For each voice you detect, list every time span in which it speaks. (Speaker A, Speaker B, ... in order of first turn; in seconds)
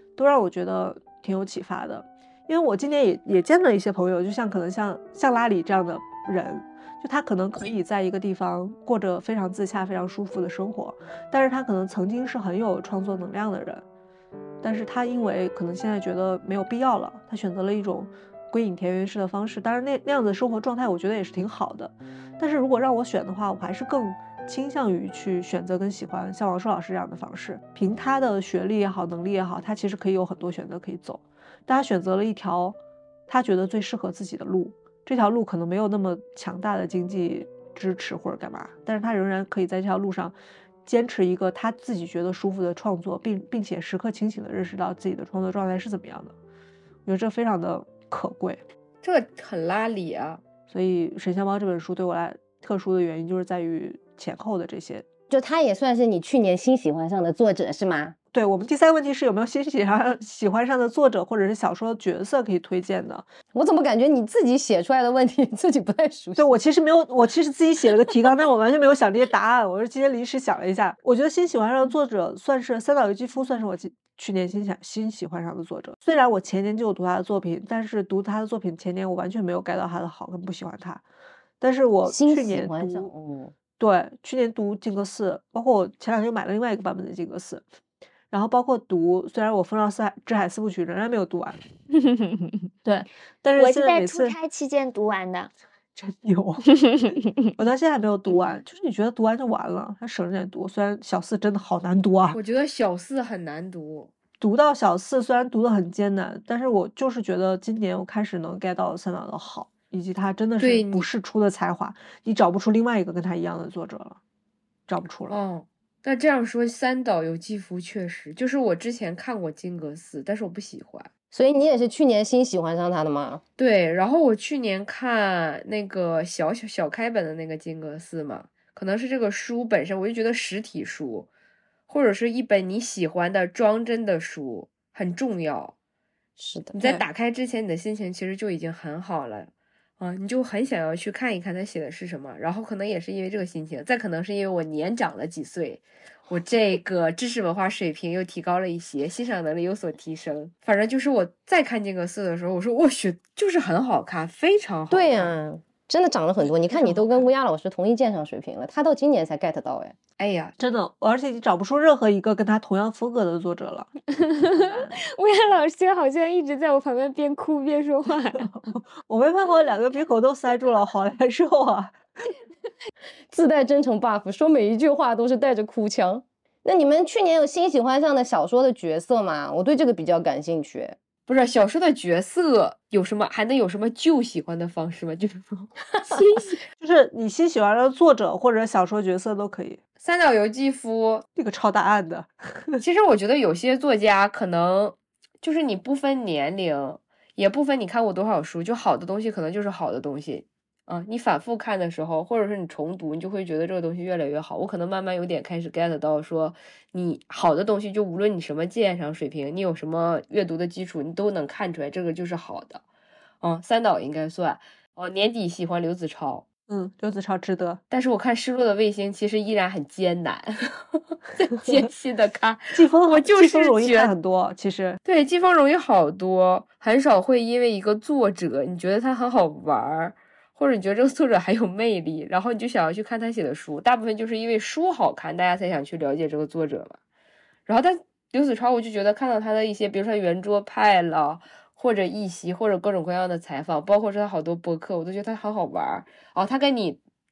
Speaker A: 0.1-13.8, 14.6-46.3, 47.0-48.6, 50.7-55.0, 58.3-63.3, 66.4-81.0, 81.6-83.1, 83.8-87.7, 88.3-91.6, 92.8-94.3, 96.0-96.8, 97.5-102.4, 104.4-114.2, 114.9-115.4, 156.7-157.2, 160.6-163.9, 164.6-164.9, 168.7-172.0, 186.8-189.8, 191.3-192.8, 216.7-217.8, 222.7-225.0
Speaker B: 49.0-50.4, 102.3-104.1, 110.6-111.1, 115.3-121.1, 123.6-131.3, 131.9-135.7, 136.7-155.3, 160.2-160.6, 181.3-186.6, 190.0-191.2, 192.8-212.8, 213.4-216.4, 217.9-224.1, 225.0-237.0, 237.7-247.0
Speaker C: 55.3-58.1, 63.5-66.6, 82.0-83.5, 121.3-123.4, 136.4-136.8, 154.9-159.9, 173.3-181.0
Speaker D: 93.6-95.5, 164.2-168.5